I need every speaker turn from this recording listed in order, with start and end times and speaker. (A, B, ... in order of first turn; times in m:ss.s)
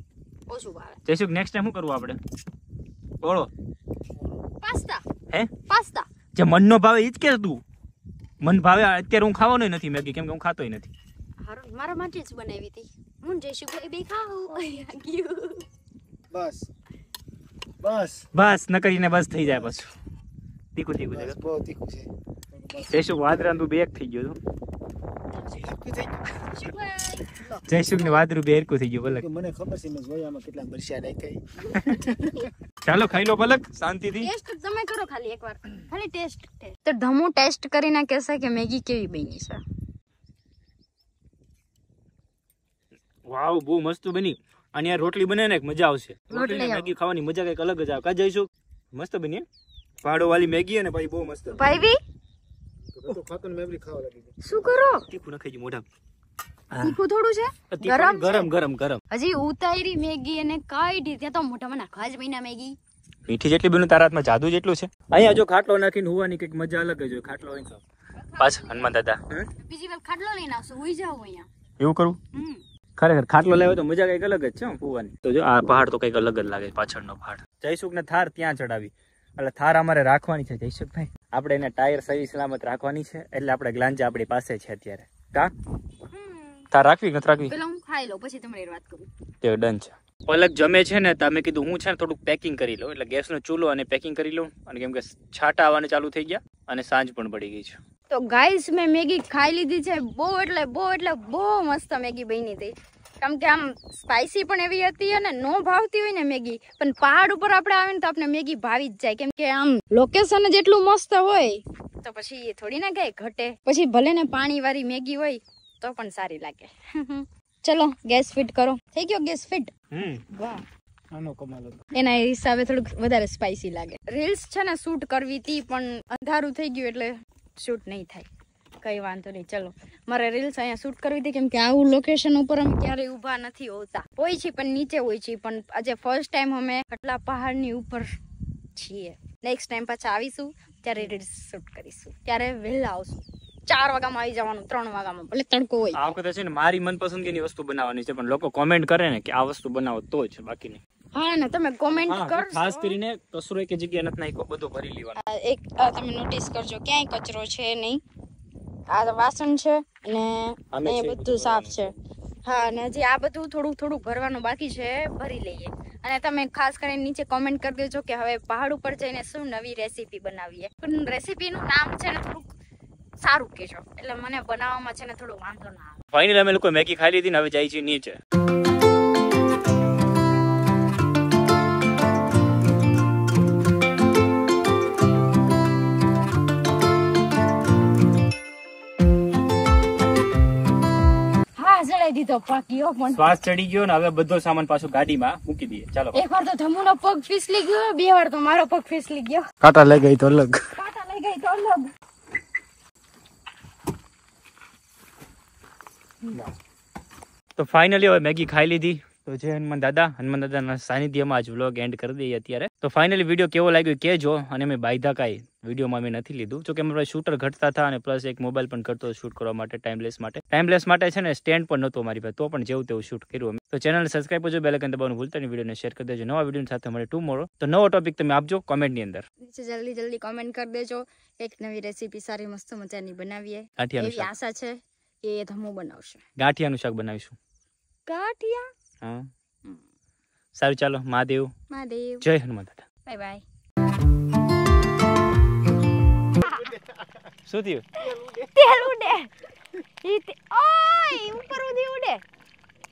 0:00.5-0:01.0 A
0:01.0-0:02.2 B
0:03.2-0:03.5 B
0:04.6-0:05.1 A
0:05.6-0:06.1 A
0:06.3-0:07.6 B
0:08.4-0:10.9 B
0:11.4-0:15.6 A
0:16.3-0:16.7 C
0:17.8-0:18.2 C
0:18.3-0:19.9 B
0:20.7-0:21.4 B
0:21.1-0:23.0 C
0:22.8-0:24.4 B
0:25.5-0:26.4 C
0:26.4-0:27.4 A
0:27.6-0:29.2 B
0:29.1-0:31.4 C
0:31.7-0:32.2 B
0:32.0-0:32.5 A
0:32.8-0:34.3 B
0:34.2-0:39.6 A
0:43.2-0:49.4 B
0:46.3-0:46.9 A
0:50.0-0:51.6 B
0:51.5-0:52.0 A
0:52.9-0:54.3 C
0:54.4-0:55.1 A
0:55.1-0:55.8 B
0:56.7-0:57.0 B
0:56.8-0:58.5 A
0:57.7-0:59.0 B
0:59.1-1:02.8 A
1:03.3-1:07.8 B
1:08.2-1:08.8 A
1:08.4-1:09.5 B
1:09.6-1:11.5 A
1:11.8-1:12.2 B
1:12.3-1:12.6 A
1:13.0-1:25.5 B
1:26.1-1:26.6 A
1:26.7-1:27.5 B
1:27.5-1:29.1 A
1:29.4-1:37.8 B
1:38.1-1:59.7 A
1:59.9-2:00.2 B
2:00.3-2:00.6 A
2:01.1-2:01.8 C
2:01.9-2:08.3 A
2:08.8-2:18.1 A
2:18.7-2:26.0 A
2:25.9-2:30.8 B
2:31.1-2:33.0 A
2:31.9-2:35.2 B
2:35.2-2:38.0 A
2:38.9-2:41.9 A
2:40.7-2:42.0 B
2:42.4-2:52.5 A
2:53.2-2:56.0 A
2:56.1-2:58.2 B
3:11.6-3:13.3 A
3:13.1-3:16.2 B
3:16.1-3:19.4 A
3:19.6-3:20.6 C
3:20.7-3:21.9 A
3:27.6-3:49.2 B
3:49.4-3:56.2 A
3:53.8-3:54.3 B
3:56.4-3:57.4 B
3:58.1-3:58.7 A
4:00.5-4:01.5 B
4:01.7-4:02.3 A
4:02.2-4:02.8 B
4:03.0-4:03.4 A
4:06.4-4:06.7 A
4:07.4-4:07.9 B
4:08.0-4:12.2 A
4:08.2-4:08.5 C